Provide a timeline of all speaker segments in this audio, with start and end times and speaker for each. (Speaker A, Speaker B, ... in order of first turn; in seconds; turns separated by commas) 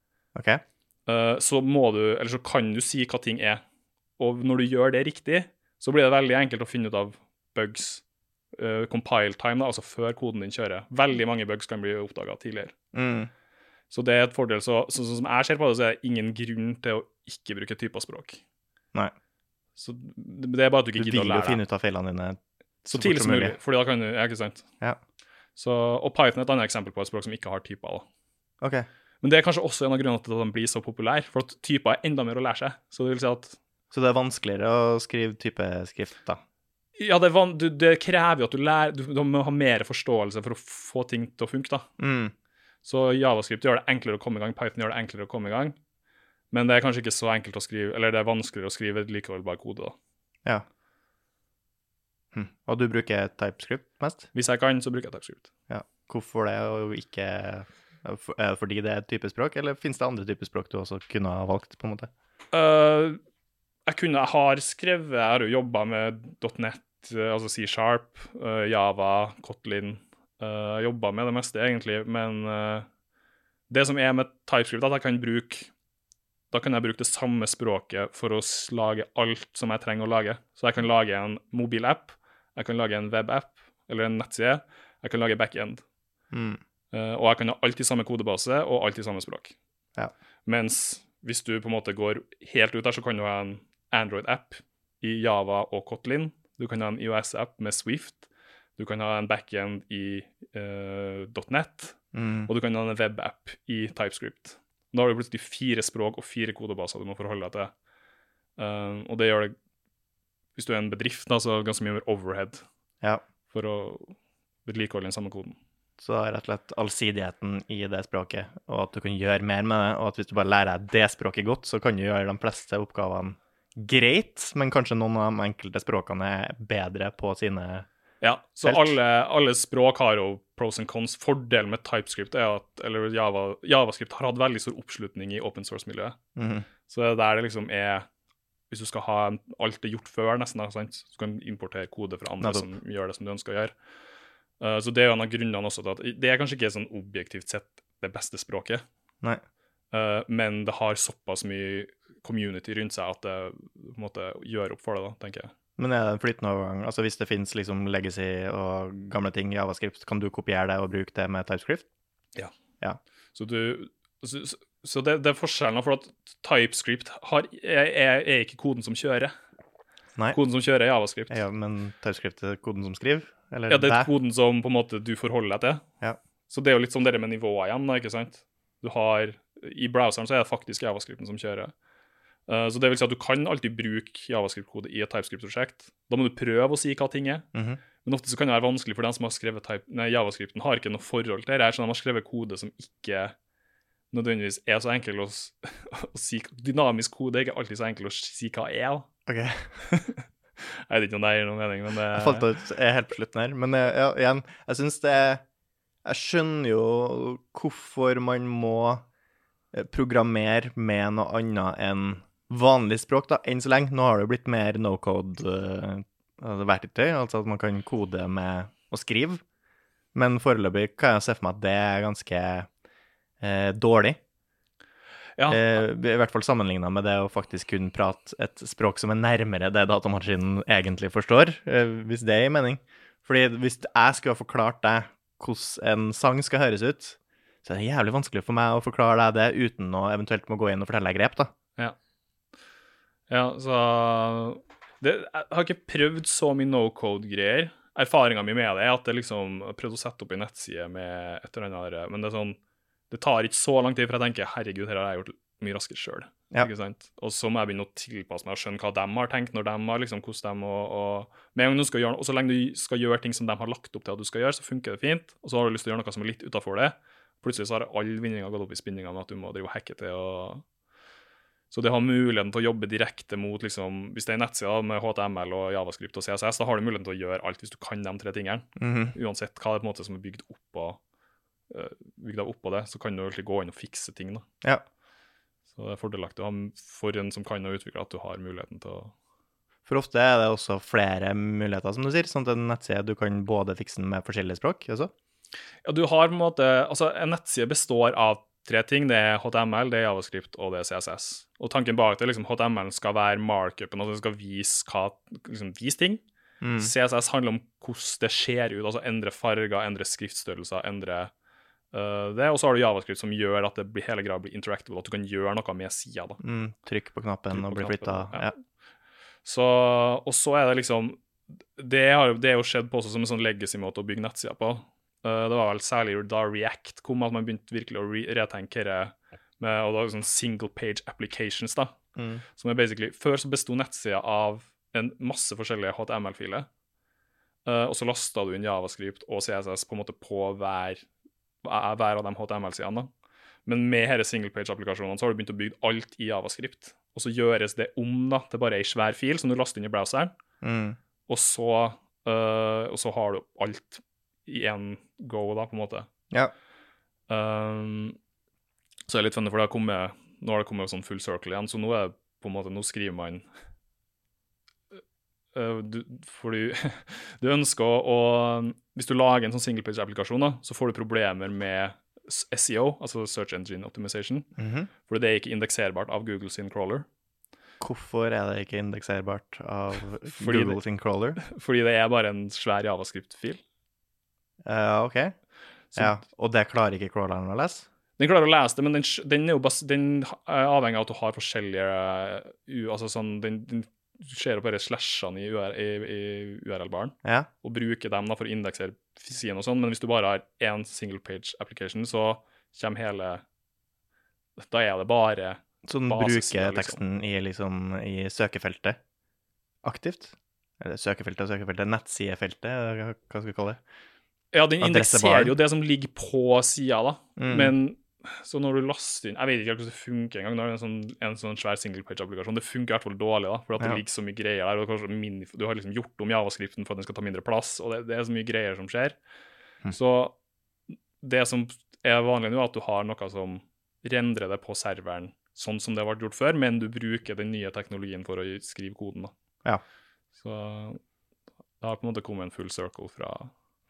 Speaker A: 0.3-0.6, Speaker B: 1.1-3.6, Speaker B: 4.2-12.7, Speaker A: 12.9-13.3, Speaker B: 13.9-18.4, Speaker B: 19.8-21.6, Speaker A: 21.0-22.4, Speaker B: 22.8-24.6, Speaker A: 22.9-23.6, Speaker B: 25.6-28.0, Speaker A: 28.6-28.9, Speaker B: 29.2-33.6, Speaker A: 33.9-36.4, Speaker B: 37.0-41.9, Speaker A: 42.0-42.3, Speaker B: 42.8-45.8, Speaker B: 46.5-49.9, Speaker A: 52.3-54.3, Speaker B: 54.3-55.5, Speaker A: 55.7-62.1, Speaker B: 62.5-63.2, Speaker B: 63.9-72.9, Speaker B: 73.7-75.7, Speaker B: 76.5-85.8, Speaker A: 86.3-86.6, Speaker B: 86.9-89.5, Speaker B: 90.5-107.7, Speaker A: 102.1-102.5, Speaker B: 108.6-109.5, Speaker B: 110.5-112.6, Speaker B: 113.5-115.6, Speaker A: 116.0-127.9, Speaker B: 128.2-136.2, Speaker A: 128.6-128.9, Speaker A: 136.3-136.7, Speaker B: 136.9-138.1, Speaker B: 138.7-143.7, Speaker A: 142.4-142.7, Speaker B: 144.6-148.8, Speaker B: 149.9-155.5, Speaker A: 155.8-161.9, Speaker B: 163.3-169.3, Speaker B: 170.3-171.4, Speaker A: 171.3-174.1, Speaker B: 173.7-175.8, Speaker B: 176.5-181.7, Speaker B: 182.5-187.5, Speaker A: 187.5-187.8, Speaker B: 188.0-193.3, Speaker B: 194.1-199.1, Speaker A: 199.3-199.7, Speaker B: 199.8-202.5, Speaker A: 202.1-205.4, Speaker A: 206.0-209.0, Speaker A: 209.7-219.4, Speaker A: 220.1-222.7, Speaker A: 223.4-224.2, Speaker B: 225.4-225.8, Speaker A: 225.5-241.5, Speaker B: 243.3-252.6, Speaker B: 253.1-270.6, Speaker B: 271.7-281.0, Speaker A: 278.8-279.1, Speaker B: 281.7-284.4, Speaker B: 285.7-289.1, Speaker A: 289.9-295.1, Speaker B: 295.8-306.2, Speaker A: 306.6-306.9, Speaker B: 306.8-311.3, Speaker B: 311.9-316.4, Speaker A: 316.4-318.5, Speaker B: 317.5-318.5, Speaker B: 319.4-321.2, Speaker B: 321.8-331.9, Speaker A: 332.1-332.4, Speaker B: 332.6-336.7, Speaker B: 337.6-341.1, Speaker B: 341.6-343.1, Speaker B: 343.6-350.3, Speaker A: 350.6-351.0, Speaker B: 351.3-356.1, Speaker B: 357.3-358.2, Speaker B: 359.1-363.4, Speaker B: 365.5-374.5, Speaker A: 374.6-374.9, Speaker B: 375.1-377.1, Speaker A: 377.8-381.4, Speaker B: 380.4-380.8, Speaker B: 381.4-383.6, Speaker A: 384.6-385.3, Speaker A: 385.9-387.9, Speaker B: 388.2-403.4, Speaker B: 404.6-407.0, Speaker A: 405.8-409.0, Speaker A: 409.8-413.8, Speaker B: 414.5-429.2, Speaker A: 414.8-415.5, Speaker A: 417.4-417.7, Speaker B: 429.9-430.3, Speaker B: 431.2-439.3, Speaker B: 440.4-441.0, Speaker B: 441.8-443.5